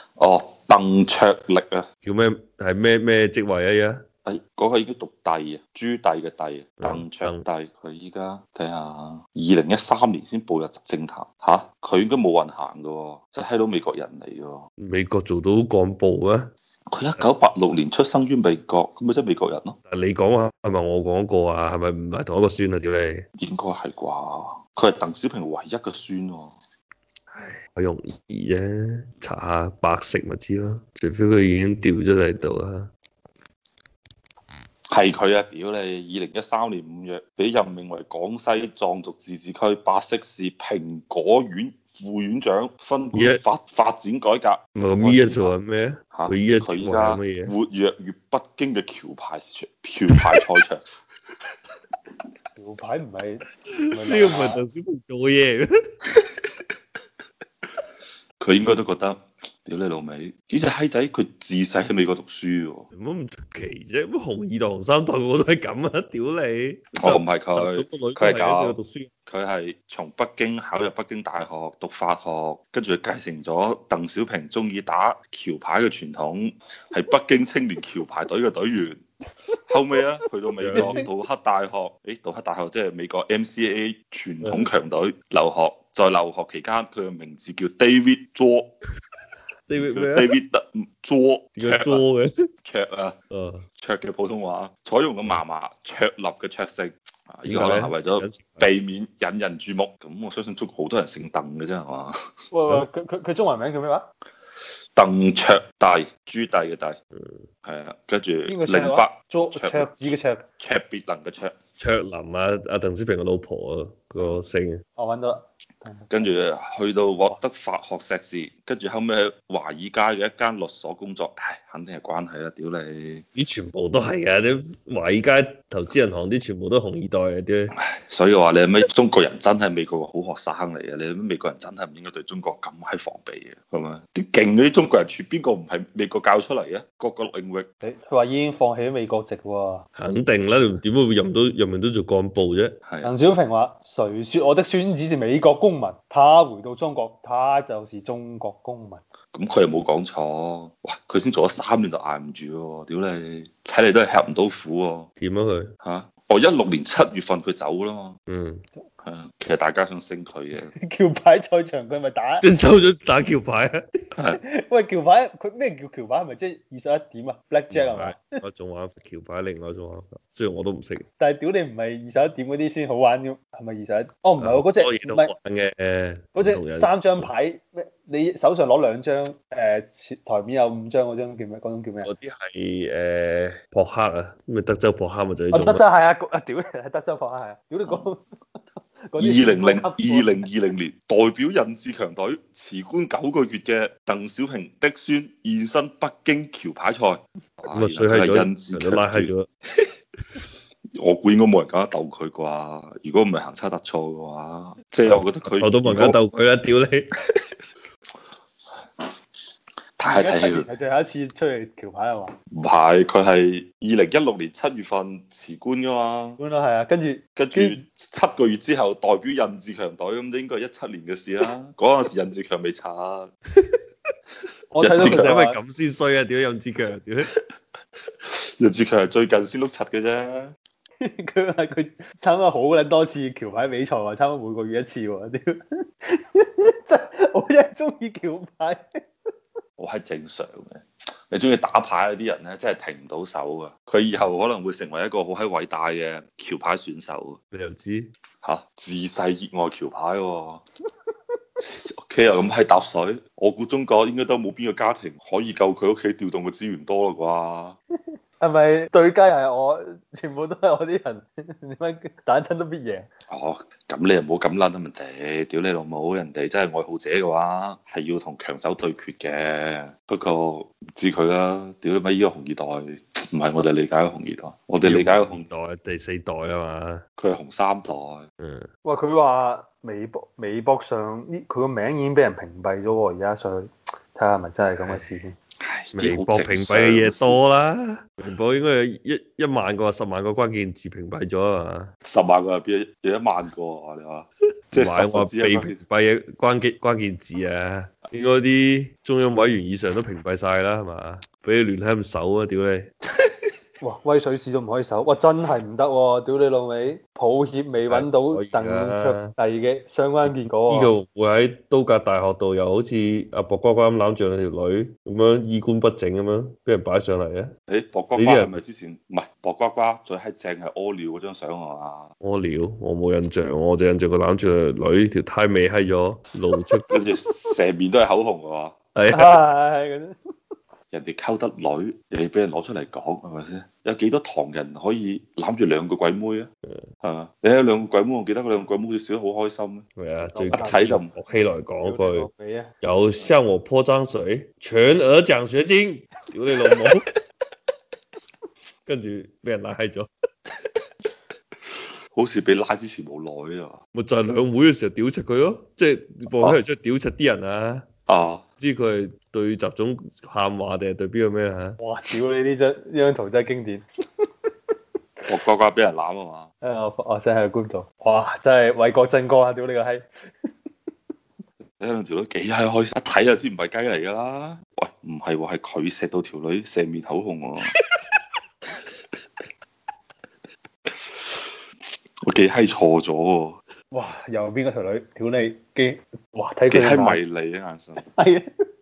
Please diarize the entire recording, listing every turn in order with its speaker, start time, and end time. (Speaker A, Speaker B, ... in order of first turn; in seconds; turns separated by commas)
Speaker A: 0.2-1.9, Speaker B: 2.0-4.0, Speaker A: 4.2-14.7, Speaker B: 6.8-7.5, Speaker B: 14.8-16.5, Speaker A: 16.9-19.8, Speaker B: 19.9-23.2, Speaker A: 23.4-26.5, Speaker B: 27.3-32.9, Speaker A: 34.9-45.5, Speaker B: 43.1-43.4, Speaker B: 44.8-47.5, Speaker A: 46.1-50.8, Speaker C: 52.5-54.6, Speaker B: 53.8-55.7, Speaker A: 58.4-62.9, Speaker B: 62.9-69.1, Speaker A: 67.0-79.0, Speaker A: 79.7-88.7, Speaker B: 80.6-81.1, Speaker C: 80.7-81.1, Speaker B: 89.7-90.3, Speaker A: 89.8-92.0, Speaker B: 91.6-92.3, Speaker A: 92.6-93.2, Speaker B: 93.3-93.7, Speaker A: 93.8-102.2, Speaker B: 97.5-98.7, Speaker C: 102.5-104.1, Speaker A: 105.0-107.0, Speaker B: 107.1-107.5, Speaker A: 107.6-110.0, Speaker C: 108.5-110.4, Speaker A: 110.6-111.5, Speaker B: 111.8-114.8, Speaker C: 115.0-116.3, Speaker A: 116.1-123.2, Speaker B: 123.3-127.7, Speaker A: 127.9-137.7, Speaker C: 137.8-139.8, Speaker B: 139.9-142.8, Speaker A: 142.8-143.1, Speaker C: 143.0-149.0, Speaker A: 149.3-155.1, Speaker B: 155.2-155.7, Speaker A: 155.8-158.2, Speaker B: 158.3-158.6, Speaker A: 159.0-160.7, Speaker C: 160.8-162.5, Speaker B: 162.4-163.8, Speaker C: 164.4-168.2, Speaker B: 167.7-171.0, Speaker C: 171.2-175.3, Speaker B: 174.4-177.3, Speaker C: 176.3-182.1, Speaker B: 182.0-185.8, Speaker C: 185.5-188.2, Speaker A: 187.8-188.1, Speaker C: 188.8-190.4, Speaker A: 189.2-199.3, Speaker B: 197.7-199.5, Speaker A: 200.9-206.2, Speaker B: 205.1-207.1, Speaker A: 210.0-210.7, Speaker C: 210.0-212.3, Speaker A: 212.5-216.4, Speaker C: 216.4-217.8, Speaker A: 217.3-223.3, Speaker C: 224.7-225.6, Speaker A: 224.8-225.3, Speaker B: 224.9-227.3, Speaker A: 228.2-230.5, Speaker C: 231.0-238.8, Speaker A: 239.8-247.4, Speaker B: 247.5-248.1, Speaker A: 248.4-250.6, Speaker A: 251.6-257.8, Speaker C: 258.4-263.1, Speaker A: 263.3-275.4, Speaker B: 274.8-277.0, Speaker A: 277.2-278.3, Speaker B: 278.4-278.7, Speaker C: 278.8-285.4, Speaker B: 284.8-285.2, Speaker A: 285.6-287.4, Speaker B: 285.9-291.9, Speaker A: 292.0-295.8, Speaker B: 294.7-302.9, Speaker C: 303.8-310.9, Speaker B: 307.9-309.3, Speaker B: 310.6-317.5, Speaker A: 317.7-322.1, Speaker B: 318.1-318.5, Speaker B: 322.2-326.8, Speaker A: 326.9-328.8, Speaker B: 328.9-329.4, Speaker C: 329.1-330.1, Speaker A: 330.9-336.5, Speaker A: 337.0-339.9, Speaker B: 339.9-342.3, Speaker C: 340.3-340.9, Speaker A: 340.5-341.1, Speaker C: 341.8-342.7, Speaker B: 342.8-347.0, Speaker B: 348.9-350.1, Speaker A: 352.1-353.8, Speaker B: 353.9-357.9, Speaker A: 358.1-358.4, Speaker B: 358.6-361.8, Speaker C: 361.8-363.8, Speaker A: 365.3-366.5, Speaker C: 366.6-370.1, Speaker A: 371.8-377.7, Speaker A: 380.9-381.5, Speaker A: 382.2-383.6, Speaker C: 383.9-387.2, Speaker A: 386.7-388.1, Speaker C: 388.0-388.4